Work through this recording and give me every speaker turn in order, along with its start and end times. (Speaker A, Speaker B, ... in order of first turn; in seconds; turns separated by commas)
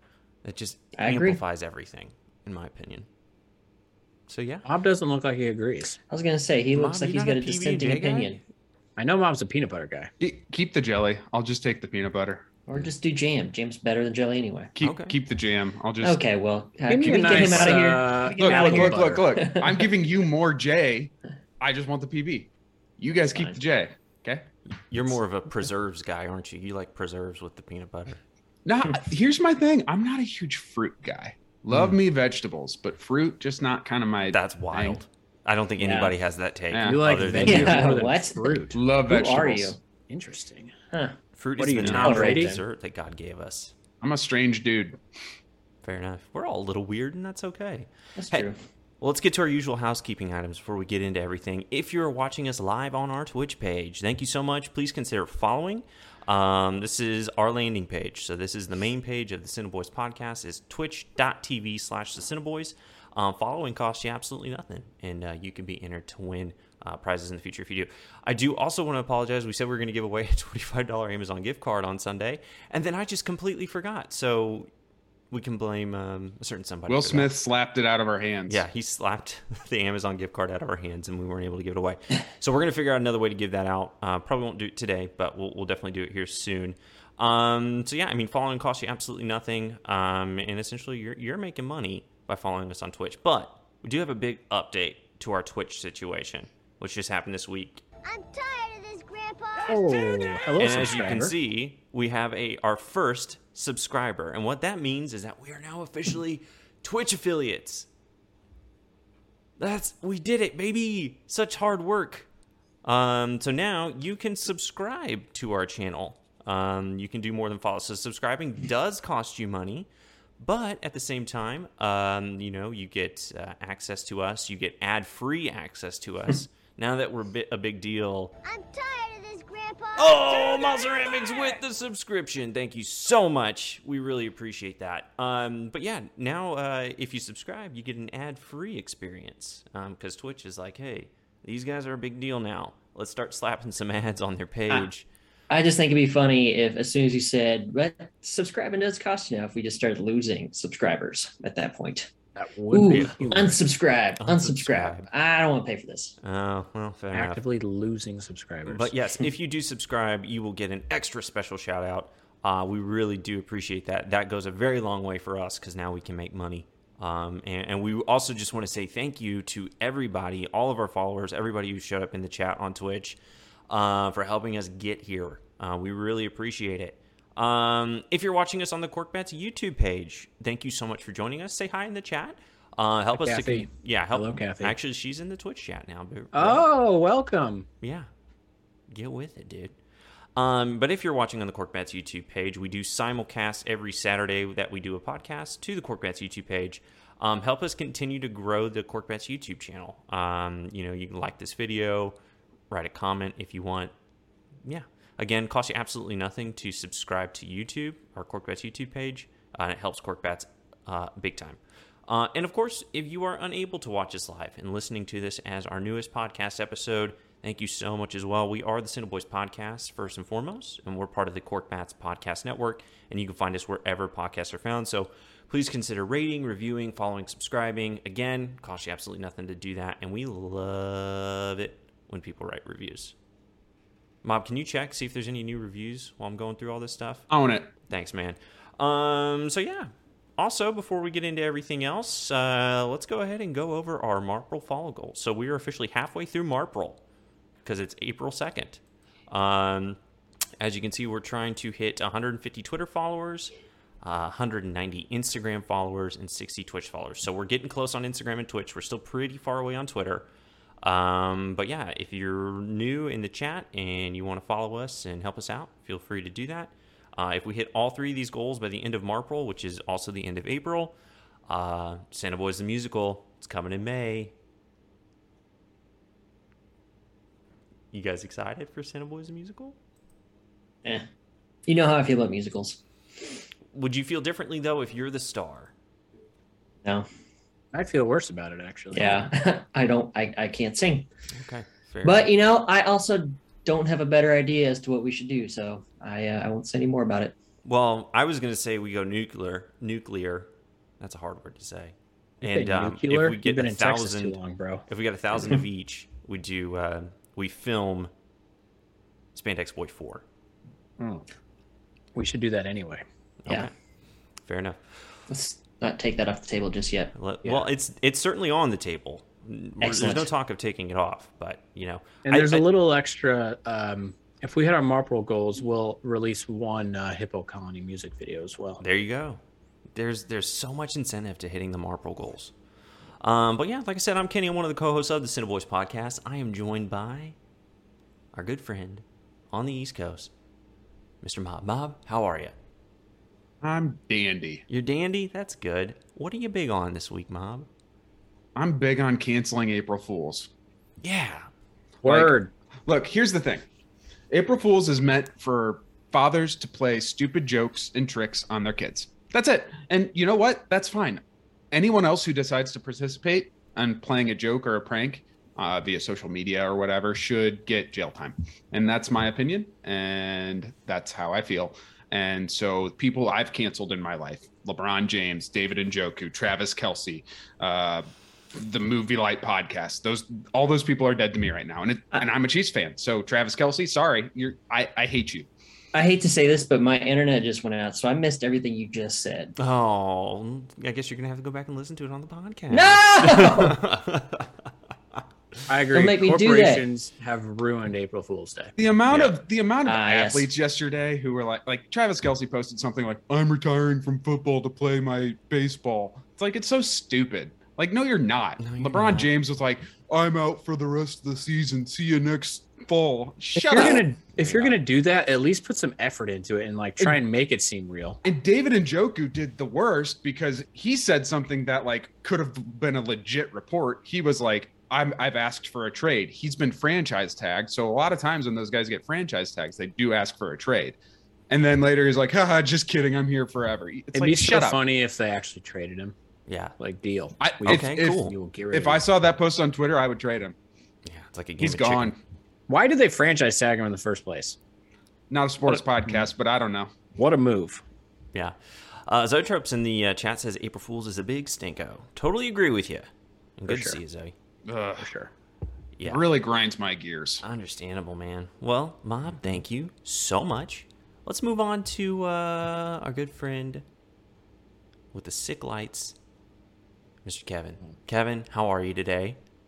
Speaker A: 0.4-3.1, Speaker B: 1.0-1.4, Speaker A: 4.3-4.7, Speaker C: 4.7-6.0, Speaker B: 6.1-8.4, Speaker A: 6.8-8.4, Speaker C: 9.0-10.1, Speaker D: 10.2-12.5, Speaker B: 12.7-14.7, Speaker D: 14.8-16.2, Speaker A: 14.8-15.2, Speaker B: 16.0-19.9, Speaker C: 16.9-19.2, Speaker D: 17.0-17.8, Speaker D: 18.3-24.5, Speaker A: 24.8-28.2, Speaker D: 28.6-35.0, Speaker A: 34.3-38.0, Speaker B: 35.8-36.1, Speaker D: 36.7-37.0, Speaker C: 36.8-38.8, Speaker B: 37.4-38.5, Speaker D: 38.7-39.8, Speaker B: 39.1-39.8, Speaker C: 40.1-40.8, Speaker A: 41.4-43.7, Speaker C: 41.6-42.6, Speaker B: 41.9-42.6, Speaker D: 44.0-45.0, Speaker A: 45.8-48.5, Speaker B: 48.2-48.6, Speaker A: 49.0-74.7, Speaker A: 75.3-77.4, Speaker D: 76.9-78.6, Speaker A: 78.5-97.8, Speaker E: 98.0-100.6, Speaker C: 99.7-101.3, Speaker A: 100.6-107.9, Speaker A: 109.6-112.3, Speaker A: 112.8-128.3, Speaker E: 128.4-131.6, Speaker A: 130.0-145.1, Speaker B: 145.5-152.1, Speaker C: 152.4-153.6, Speaker B: 152.7-156.2, Speaker A: 152.8-153.4, Speaker A: 154.2-155.1, Speaker A: 156.2-157.4, Speaker C: 157.1-159.2, Speaker A: 158.7-173.2, Speaker A: 173.7-186.7, Speaker C: 183.1-184.8, Speaker C: 186.3-187.7, Speaker A: 187.8-188.1, Speaker A: 188.9-189.8, Speaker A: 190.4-202.2, Speaker A: 202.7-203.9, Speaker A: 204.6-233.1, Speaker A: 234.2-237.3, Speaker D: 237.3-237.7, Speaker A: 237.9-247.0, Speaker A: 247.7-250.0, Speaker A: 250.6-260.3, Speaker A: 260.8-270.9, Speaker A: 271.5-274.3, Speaker A: 277.9-279.8, Speaker B: 281.7-282.8, Speaker A: 283.7-285.7, Speaker C: 287.7-289.3, Speaker B: 288.9-291.1, Speaker A: 291.3-292.3, Speaker B: 292.0-297.3, Speaker A: 297.6-300.5, Speaker A: 301.0-308.1, Speaker C: 302.4-305.5, Speaker A: 309.4-310.2, Speaker C: 311.0-311.2, Speaker C: 312.1-313.0, Speaker A: 313.4-313.7, Speaker A: 314.4-314.8, Speaker B: 315.3-317.1, Speaker A: 317.1-322.7, Speaker C: 317.4-317.7, Speaker B: 319.8-320.3, Speaker C: 322.2-328.8, Speaker A: 328.8-329.4, Speaker A: 329.9-332.5, Speaker A: 333.2-337.4, Speaker A: 338.3-340.3, Speaker A: 341.2-342.5, Speaker D: 343.6-344.6, Speaker A: 344.7-347.7, Speaker D: 348.6-350.5, Speaker A: 351.0-351.5, Speaker D: 352.0-352.3, Speaker C: 352.0-352.5, Speaker D: 352.9-353.6, Speaker D: 354.3-385.5, Speaker B: 385.9-389.5, Speaker A: 389.6-394.5, Speaker B: 392.7-393.8, Speaker C: 395.7-398.7, Speaker B: 395.9-396.8, Speaker D: 398.8-414.8, Speaker A: 399.1-399.4, Speaker B: 399.9-400.5, Speaker A: 408.6-409.3, Speaker C: 413.6-418.2, Speaker B: 413.7-414.0, Speaker D: 418.2-431.0, Speaker D: 431.5-434.8, Speaker C: 434.1-436.2, Speaker A: 436.5-436.7, Speaker C: 436.8-439.1, Speaker D: 437.4-440.6, Speaker A: 437.6-438.3, Speaker A: 441.1-442.1, Speaker D: 441.6-442.2, Speaker C: 442.7-444.6, Speaker D: 445.3-446.9, Speaker C: 445.7-446.3, Speaker C: 447.1-447.8, Speaker A: 449.1-454.3, Speaker C: 453.7-454.0, Speaker D: 454.7-455.1, Speaker C: 455.0-455.3, Speaker A: 456.0-456.2, Speaker D: 456.1-457.4, Speaker A: 457.4-463.8, Speaker A: 465.1-466.2, Speaker A: 467.2-469.4